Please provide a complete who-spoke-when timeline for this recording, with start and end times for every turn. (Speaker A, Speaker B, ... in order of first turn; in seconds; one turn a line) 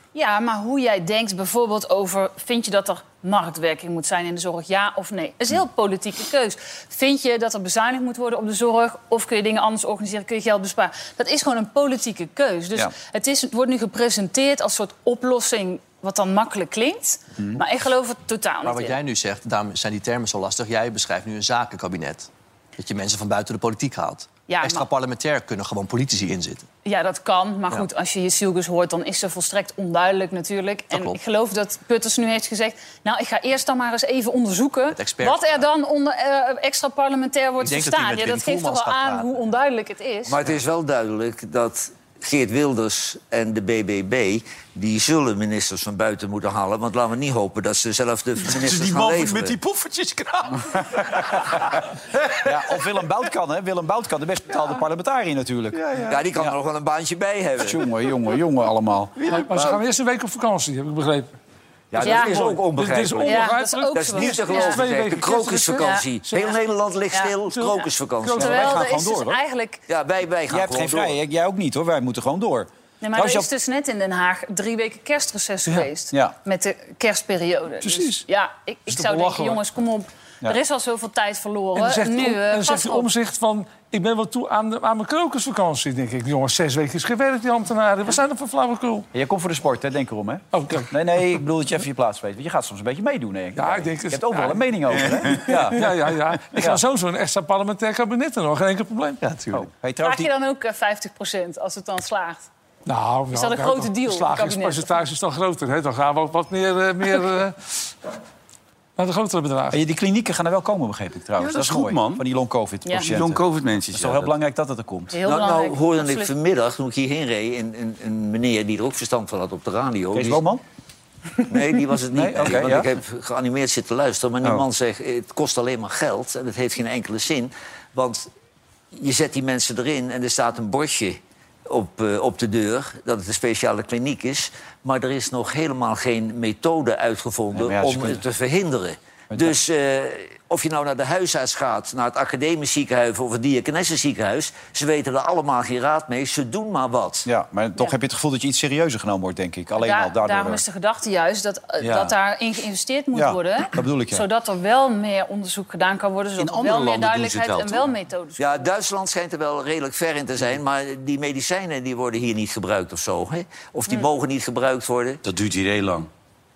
Speaker A: 0.1-19.0
Speaker B: 18.6-26.7
Speaker A: 24.5-24.9
Speaker A: 26.8-40.4
Speaker B: 30.9-31.2
Speaker B: 34.9-35.6
Speaker B: 37.6-39.3
Speaker C: 40.3-49.6
Speaker D: 48.5-52.8
Speaker E: 52.4-56.5
Speaker D: 55.8-56.1
Speaker C: 56.1-57.8
Speaker E: 57.6-59.2
Speaker D: 59.2-59.5
Speaker F: 59.3-61.3
Speaker C: 61.9-68.8
Speaker F: 62.0-66.5
Speaker A: 62.0-62.5
Speaker A: 63.2-64.8
Speaker A: 65.8-66.0
Speaker F: 67.5-68.6
Speaker A: 68.3-69.8
Speaker E: 68.4-69.4
Speaker C: 69.9-71.2
Speaker E: 70.5-73.5
Speaker A: 73.0-83.1
Speaker F: 77.8-78.2
Speaker F: 78.9-79.6
Speaker F: 81.7-89.1
Speaker E: 89.1-96.8
Speaker F: 90.5-90.9
Speaker F: 93.5-94.8
Speaker D: 95.1-95.5
Speaker F: 95.3-99.2
Speaker B: 99.2-99.7
Speaker E: 99.5-100.3
Speaker A: 100.0-102.5
Speaker F: 102.9-107.7
Speaker A: 103.3-104.9
Speaker F: 109.0-109.8
Speaker E: 109.7-115.2
Speaker D: 111.4-112.2
Speaker A: 112.8-113.1
Speaker D: 113.0-114.3
Speaker A: 115.1-116.3
Speaker C: 115.2-120.4
Speaker E: 120.1-120.6
Speaker C: 121.5-128.3
Speaker E: 122.1-122.9
Speaker C: 128.9-147.2
Speaker E: 137.5-138.2
Speaker E: 139.3-139.6
Speaker E: 147.2-150.6
Speaker A: 149.7-158.6
Speaker E: 151.8-152.1
Speaker E: 153.1-154.2
Speaker D: 156.4-157.9
Speaker C: 158.4-165.2
Speaker D: 165.2-166.1